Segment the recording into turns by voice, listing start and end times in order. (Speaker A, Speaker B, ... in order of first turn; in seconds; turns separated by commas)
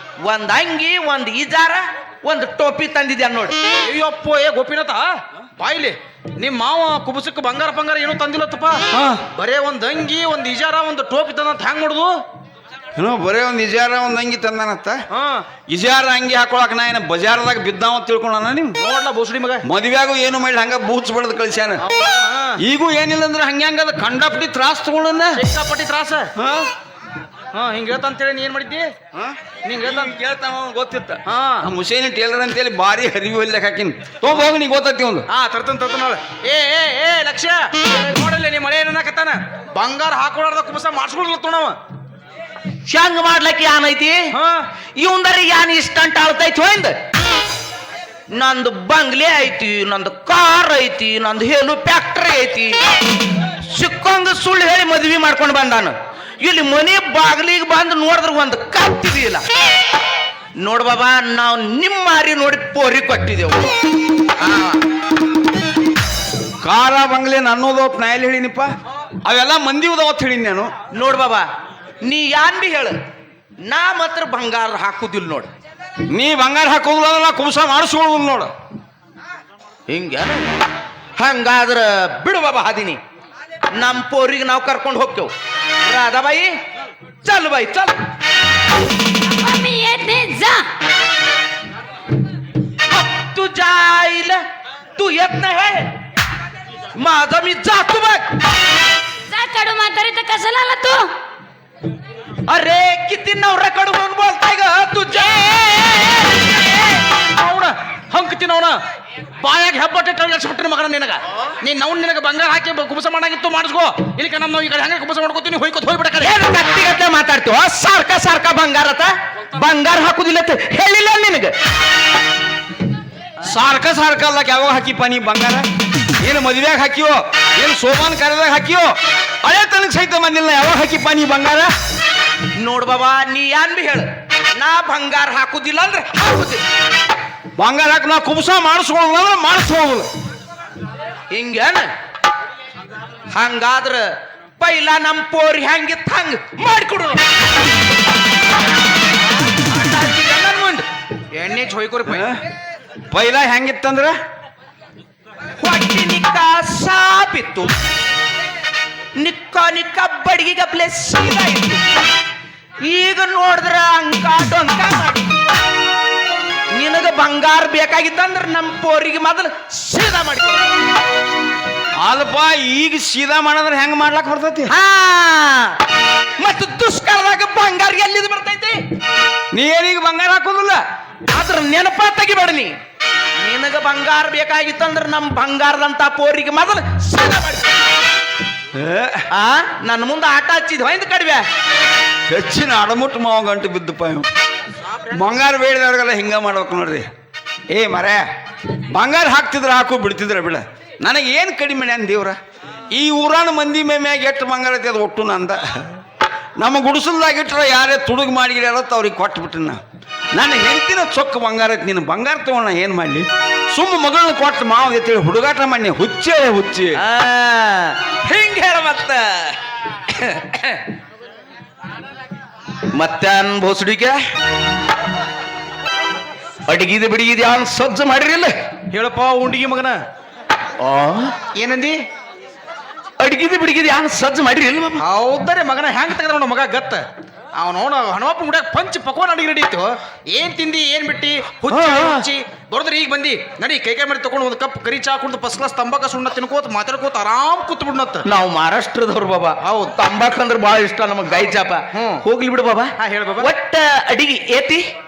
Speaker A: 0.2-3.6, Speaker B: 3.8-12.2, Speaker C: 8.9-9.2, Speaker C: 12.9-15.0, Speaker B: 15.1-15.4, Speaker C: 15.7-18.8, Speaker B: 18.8-19.6, Speaker C: 19.6-21.8, Speaker B: 21.8-22.6, Speaker C: 22.6-25.4, Speaker B: 25.3-26.3, Speaker C: 26.4-26.7, Speaker B: 27.5-28.9, Speaker C: 29.1-35.3, Speaker B: 29.6-30.1, Speaker B: 31.2-31.6, Speaker B: 35.3-41.8, Speaker A: 42.9-44.3, Speaker B: 44.3-44.6, Speaker A: 45.0-47.0, Speaker A: 48.3-52.8, Speaker A: 53.7-59.4, Speaker A: 60.6-63.8, Speaker A: 64.4-64.8, Speaker C: 66.6-68.7, Speaker C: 69.2-70.7, Speaker A: 70.9-71.5, Speaker A: 72.0-73.0, Speaker A: 73.6-75.5, Speaker C: 76.1-78.5, Speaker A: 79.9-80.5, Speaker A: 81.2-83.0, Speaker A: 83.7-85.3, Speaker A: 85.8-86.5, Speaker A: 87.2-88.0, Speaker D: 89.4-90.7, Speaker A: 92.9-94.4, Speaker A: 95.0-95.9, Speaker A: 97.0-98.3, Speaker D: 99.3-101.1, Speaker A: 102.5-107.0, Speaker B: 107.1-108.8, Speaker B: 109.4-116.3, Speaker A: 116.2-121.5, Speaker C: 123.4-125.7, Speaker C: 126.2-128.9, Speaker C: 129.4-131.7, Speaker A: 132.5-136.6, Speaker C: 137.6-140.1, Speaker A: 141.3-141.9, Speaker A: 143.3-147.2, Speaker A: 149.6-150.8, Speaker B: 151.3-152.3, Speaker C: 152.1-152.4, Speaker C: 153.1-154.2, Speaker A: 155.6-157.7, Speaker A: 159.2-161.8, Speaker A: 162.8-165.3, Speaker A: 166.7-170.7, Speaker C: 172.0-174.7, Speaker A: 174.7-175.8, Speaker A: 176.4-178.8, Speaker C: 179.5-180.8, Speaker A: 181.3-182.7, Speaker A: 183.4-187.8, Speaker C: 188.7-189.2, Speaker A: 189.3-191.4, Speaker C: 192.3-194.3, Speaker C: 195.1-197.1, Speaker C: 197.7-198.2, Speaker C: 198.9-202.4, Speaker C: 202.9-205.9, Speaker C: 206.6-209.8, Speaker C: 210.3-217.0, Speaker A: 216.9-219.6, Speaker A: 220.1-220.8, Speaker A: 222.9-224.2, Speaker A: 226.7-228.6, Speaker B: 228.9-230.0, Speaker A: 230.8-231.4, Speaker B: 231.5-232.0, Speaker A: 233.2-235.0, Speaker B: 235.0-237.0, Speaker B: 237.6-248.2, Speaker A: 241.7-242.2, Speaker A: 248.2-254.8, Speaker B: 249.6-250.0, Speaker B: 251.4-252.2, Speaker B: 253.0-253.5